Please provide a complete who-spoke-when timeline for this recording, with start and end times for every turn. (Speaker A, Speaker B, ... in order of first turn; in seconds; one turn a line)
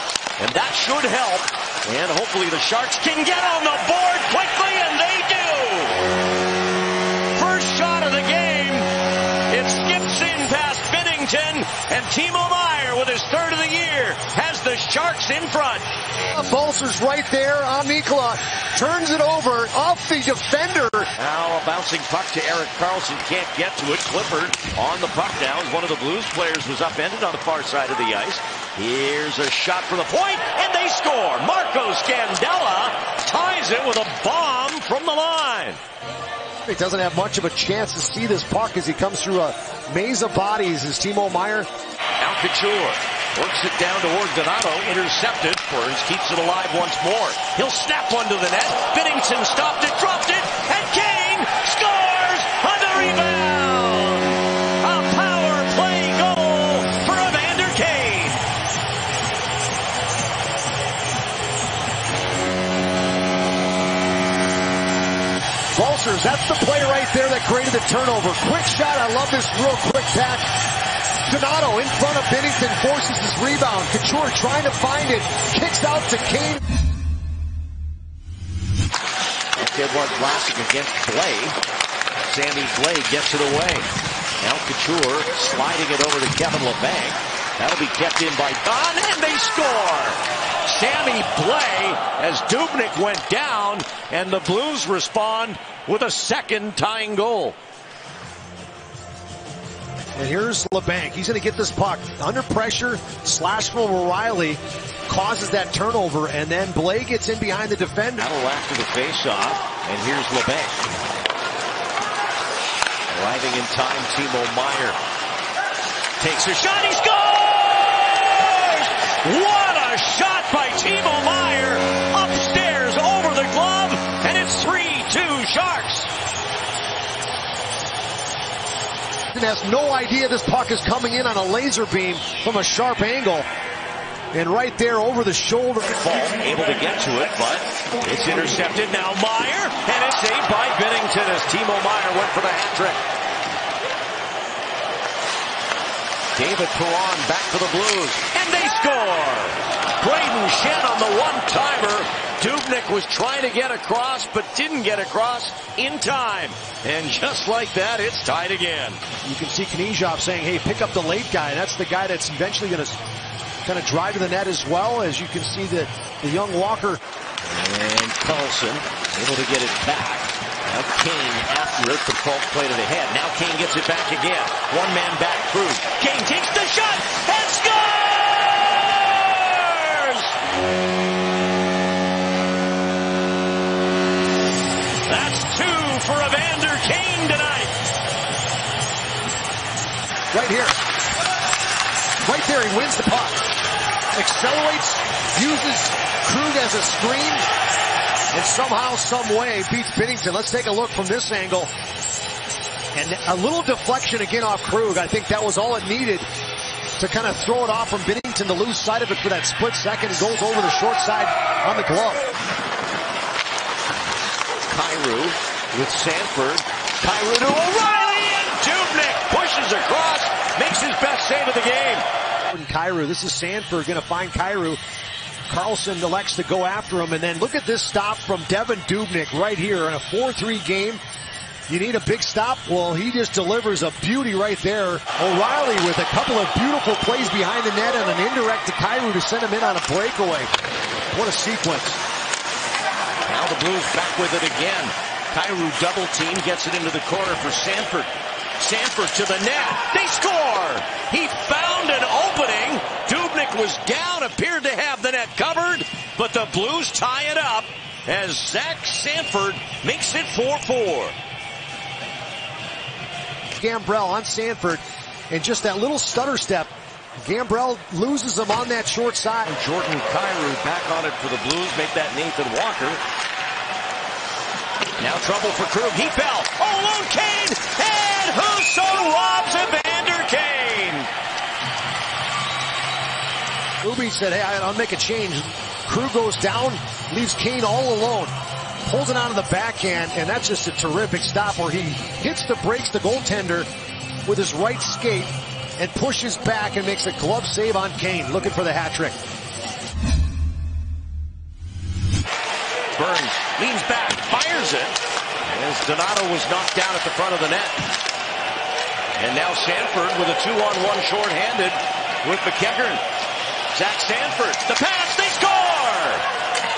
Speaker A: 0.4-6.1
Speaker A: 7.3-8.9
Speaker A: 9.5-15.8
Speaker B: 16.3-21.1
Speaker A: 21.2-35.8
Speaker B: 36.6-41.7
Speaker A: 42.2-58.4
Speaker B: 65.8-70.5
Speaker B: 71.3-76.6
Speaker A: 79.5-81.6
Speaker A: 82.3-83.9
Speaker A: 84.4-97.6
Speaker B: 100.1-108.2
Speaker A: 108.2-110.9
Speaker A: 113.1-115.0
Speaker A: 116.2-126.1
Speaker B: 129.3-133.4
Speaker B: 134.3-135.9
Speaker A: 135.9-143.0
Speaker A: 146.3-159.0
Speaker B: 159.2-163.0
Speaker B: 163.6-167.0
Speaker A: 167.4-180.4
Speaker A: 185.1-187.7
Speaker B: 190.3-190.8
Speaker B: 192.2-193.4
Speaker B: 194.1-197.5
Speaker B: 198.3-201.7
Speaker B: 202.9-206.3
Speaker B: 207.0-212.2
Speaker A: 214.7-222.0
Speaker B: 222.5-224.8
Speaker B: 225.5-231.0
Speaker B: 231.7-240.5
Speaker B: 241.1-242.0
Speaker A: 243.2-261.1
Speaker B: 263.6-266.7
Speaker B: 267.2-269.5
Speaker A: 269.4-273.0
Speaker A: 275.0-281.1
Speaker B: 283.8-288.3
Speaker B: 288.9-293.7
Speaker B: 294.2-299.2
Speaker A: 302.9-307.9
Speaker A: 309.1-313.0
Speaker A: 313.7-316.2